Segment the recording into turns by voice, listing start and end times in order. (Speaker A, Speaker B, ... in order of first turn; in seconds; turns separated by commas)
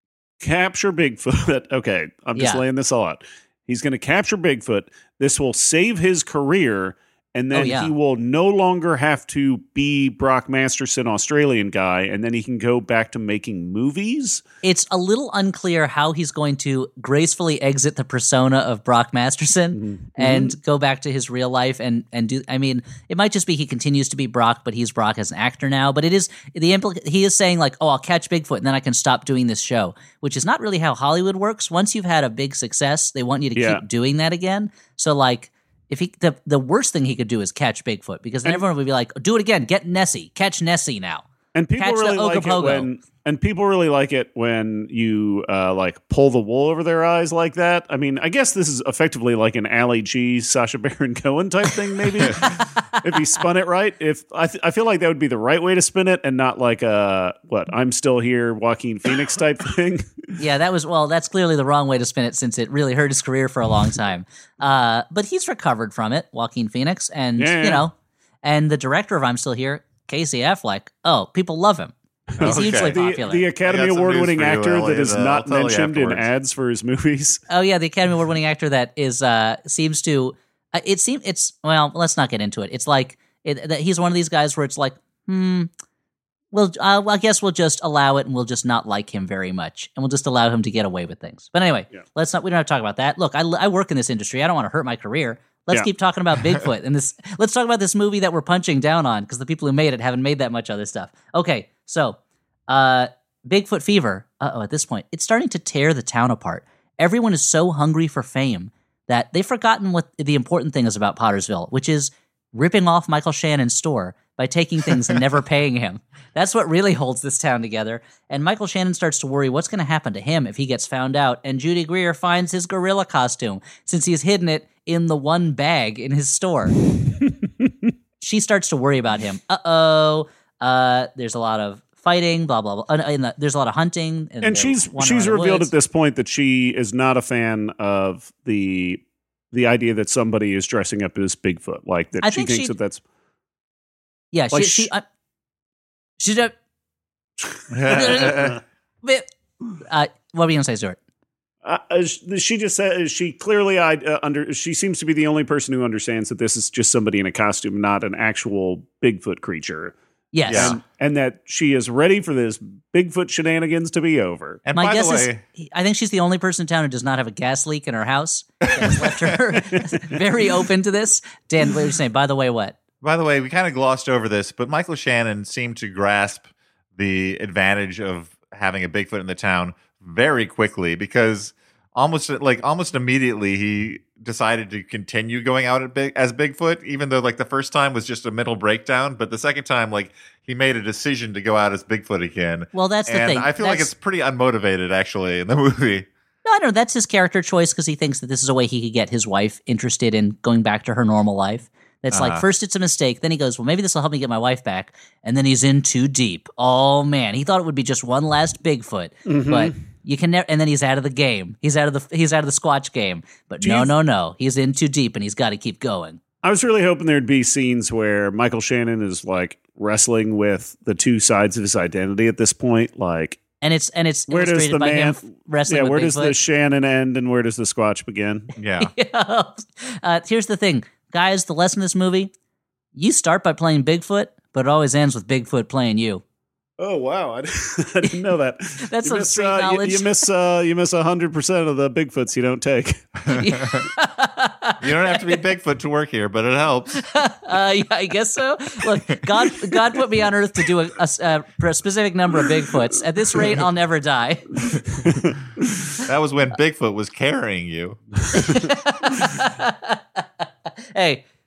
Speaker A: 0.4-14.4, Speaker B: 2.4-2.6, Speaker B: 7.5-7.9, Speaker B: 14.6-41.2, Speaker A: 19.7-20.5, Speaker A: 33.5-33.8, Speaker A: 41.5-60.3, Speaker B: 41.8-42.9, Speaker B: 52.2-52.9, Speaker B: 60.4-73.5, Speaker A: 67.4-67.9, Speaker A: 72.3-77.4, Speaker C: 72.4-73.0, Speaker C: 73.6-76.3, Speaker B: 77.5-85.7, Speaker B: 86.5-102.2, Speaker B: 102.7-126.8, Speaker A: 127.3-127.9, Speaker B: 128.2-135.7, Speaker A: 134.4-143.0, Speaker B: 142.2-142.7, Speaker B: 144.3-145.0, Speaker A: 144.5-144.9, Speaker B: 146.2-146.5, Speaker C: 147.7-148.6, Speaker B: 147.9-149.3, Speaker B: 149.9-151.0, Speaker A: 151.6-159.9, Speaker B: 160.3-160.8, Speaker C: 160.5-160.8, Speaker A: 160.5-164.6, Speaker C: 164.7-165.4, Speaker B: 164.7-172.8, Speaker C: 173.0-176.4, Speaker C: 177.0-196.1, Speaker B: 192.7-193.9, Speaker B: 196.4-216.2, Speaker C: 202.1-202.4, Speaker A: 209.3-209.7, Speaker A: 213.6-213.9, Speaker A: 216.4-223.4, Speaker B: 223.6-226.3, Speaker A: 224.3-228.5, Speaker C: 228.6-228.9, Speaker B: 228.8-232.3, Speaker B: 232.9-236.2, Speaker A: 236.8-243.4, Speaker B: 238.9-240.1, Speaker C: 243.3-243.9, Speaker B: 243.3-245.4, Speaker C: 244.8-247.0, Speaker B: 246.9-254.6, Speaker A: 255.0-255.8, Speaker C: 256.0-258.0, Speaker B: 258.3-260.2, Speaker B: 260.9-261.2